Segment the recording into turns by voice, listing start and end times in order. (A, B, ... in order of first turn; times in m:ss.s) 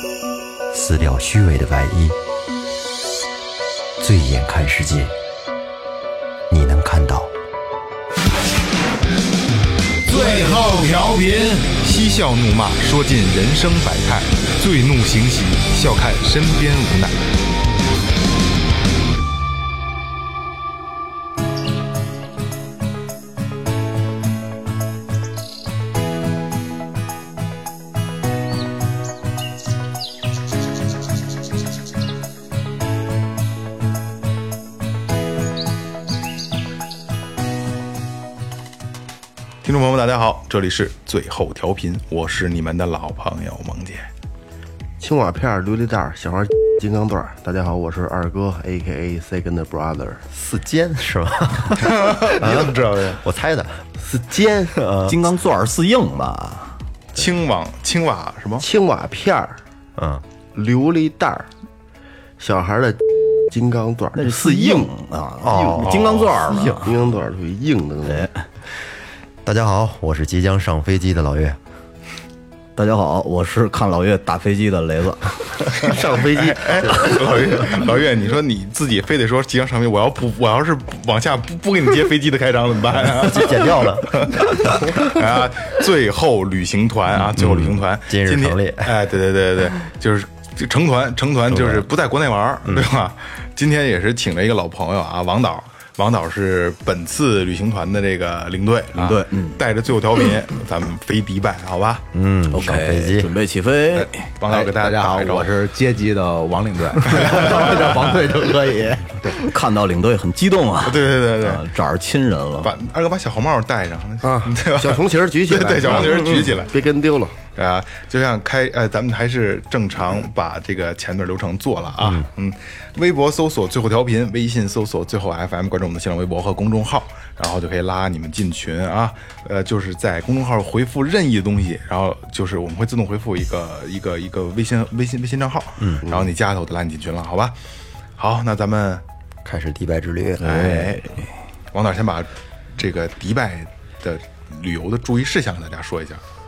0:00.7-0:02.2 A
0:04.0-0:05.1 A
0:06.5-0:07.3 A
0:10.1-0:11.6 B
0:10.1-0:10.6 C
0:11.7-0:17.3 C
0:39.6-0:44.1 C
0:45.0-0:50.2 D
0:50.3-0:53.8 A
0:51.8-0:53.2 C
0:54.0-0:54.8 D
0:54.7-0:55.2 A
0:55.0-0:56.8 B
0:57.1-0:58.6 C
0:58.6-0:59.6 D
1:00.0-1:00.2 A
1:00.5-1:01.5 D
1:02.4-1:04.9 D
1:04.1-1:06.9 B
1:05.4-1:06.8 A
1:05.5-1:08.3 D
1:08.1-1:08.4 B
1:09.4-1:11.6 A
1:12.8-1:15.6 B
1:15.7-1:17.2 D
1:16.3-1:42.0 C
1:23.0-1:24.8 A
1:27.2-1:29.0 A
1:31.5-1:31.9 A
1:32.6-1:32.9 A
1:38.9-1:39.6 B
1:42.1-1:43.3 A
1:42.5-1:44.2 B
1:43.9-1:45.5 C
1:44.4-1:49.3 E
1:47.0-1:47.9 C
1:49.3-1:52.7 B
1:50.8-1:51.6 C
1:52.6-1:56.7 C
1:54.2-1:57.4 D
1:57.6-2:17.6 C
2:16.0-2:16.3 D
2:18.2-2:19.0 C
2:19.4-2:21.0 A
2:20.4-2:21.3 B
2:20.4-2:21.0 C
2:21.7-2:26.2 C